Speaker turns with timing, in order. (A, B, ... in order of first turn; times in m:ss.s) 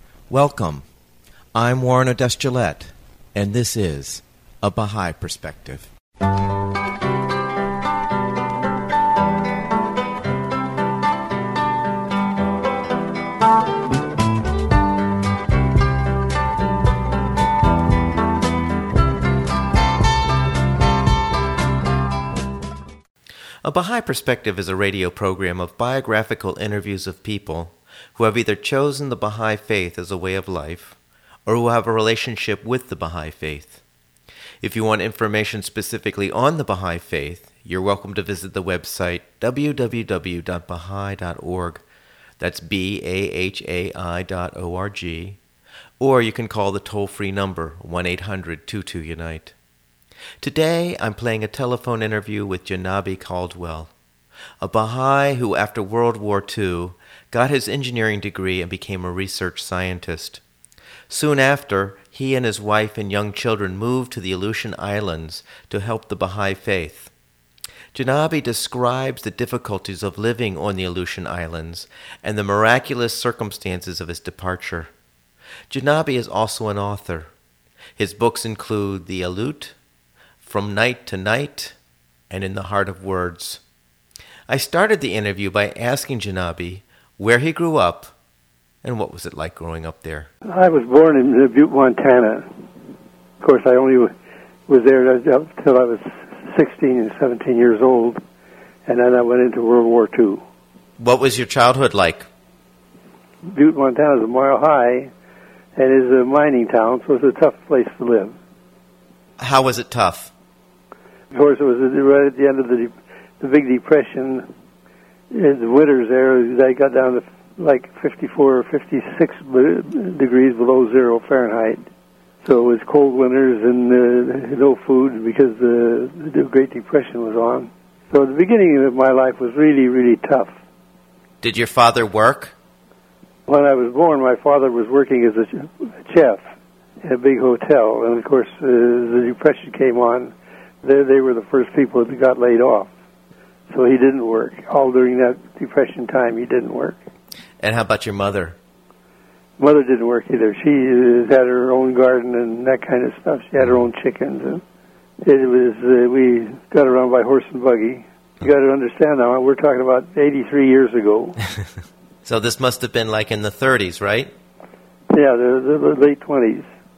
0:00.3-0:00.8 A
0:01.5-0:05.9 A
0:23.6-0:33.8 A
0:34.6-0:41.8 A
0:42.4-0:45.4 A
0:46.0-0:49.5 A
0:50.4-0:53.9 A
0:54.6-1:00.4 A
1:01.1-1:07.1 A
1:07.9-1:14.9 A
1:15.7-1:17.3 A
1:18.0-1:19.8 A
1:20.4-1:21.8 A
1:22.3-1:23.6 A
1:24.5-1:28.1 A
1:28.8-1:30.3 A
1:30.5-1:32.5 B
1:33.4-1:34.1 B
1:34.7-1:38.2 B
1:38.9-1:40.4 B
1:41.0-1:42.3 A
1:43.4-1:45.1 B
1:45.8-1:48.3 B
1:49.4-1:50.3 A
1:51.3-1:54.5 B
1:55.3-2:01.8 B
2:02.4-2:10.5 B
2:11.4-2:12.5 A
2:13.5-2:16.4 B
2:17.0-2:20.3 B
2:20.8-2:22.9 B
2:23.7-2:27.0 B
2:27.6-2:28.6 A
2:29.6-2:34.6 B
2:35.2-2:41.4 B
2:42.2-2:44.3 A
2:45.1-2:46.7 B